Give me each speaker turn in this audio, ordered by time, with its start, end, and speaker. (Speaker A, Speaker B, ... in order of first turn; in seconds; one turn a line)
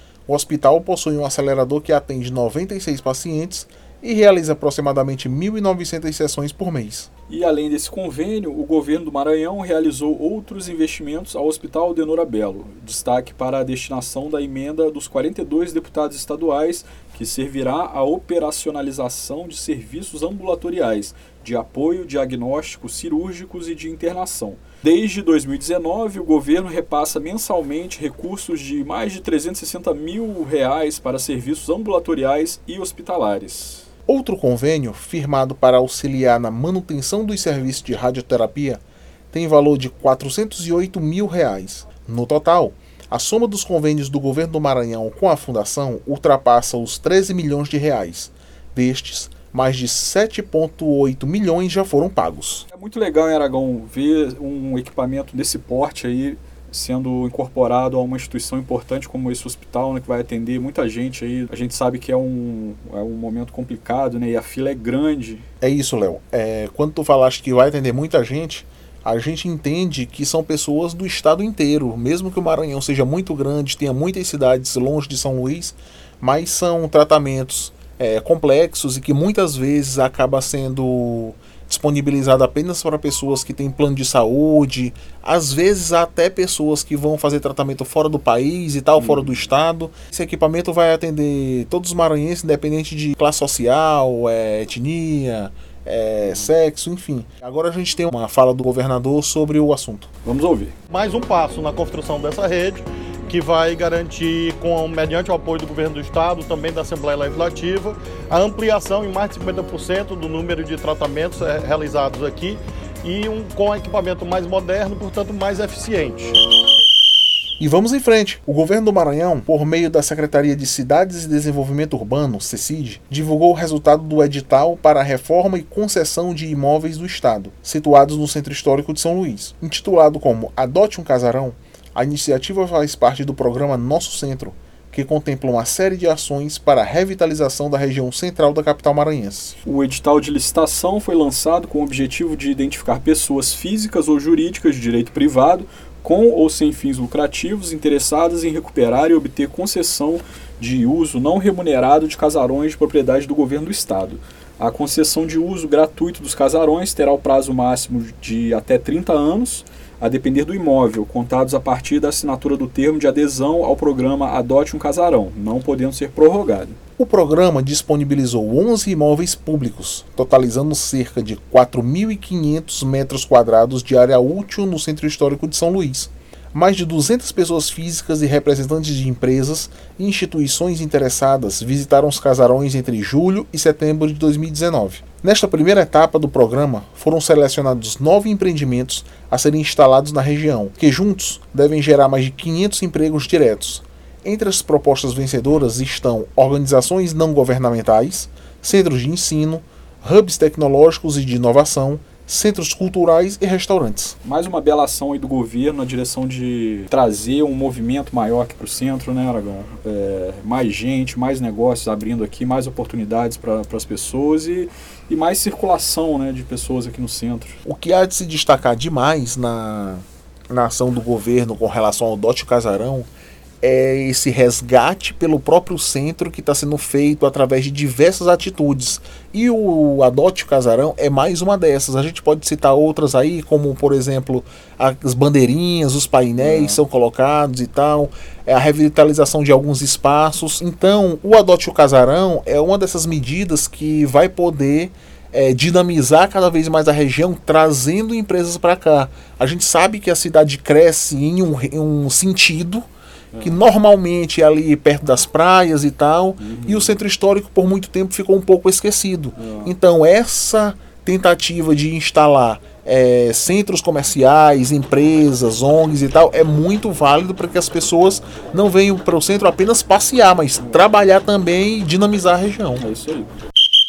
Speaker A: 0.3-7.1
Speaker B: 7.3-33.9
Speaker A: 34.1-52.7
Speaker B: 52.7-65.4
Speaker A: 65.6-100.1
Speaker B: 89.0-89.4
Speaker B: 100.2-100.7
Speaker C: 100.9-116.4
Speaker A: 117.6-139.6
Speaker B: 139.6-166.8
Speaker A: 167.0-204.2
Speaker B: 204.2-217.6
Speaker A: 217.6-223.1
Speaker A: 223.6-252.8
Speaker B: 236.4-236.8
Speaker B: 253.3-253.6
Speaker A: 253.4-272.8
Speaker B: 256.4-257.0
Speaker B: 259.4-259.7
Speaker B: 272.8-273.3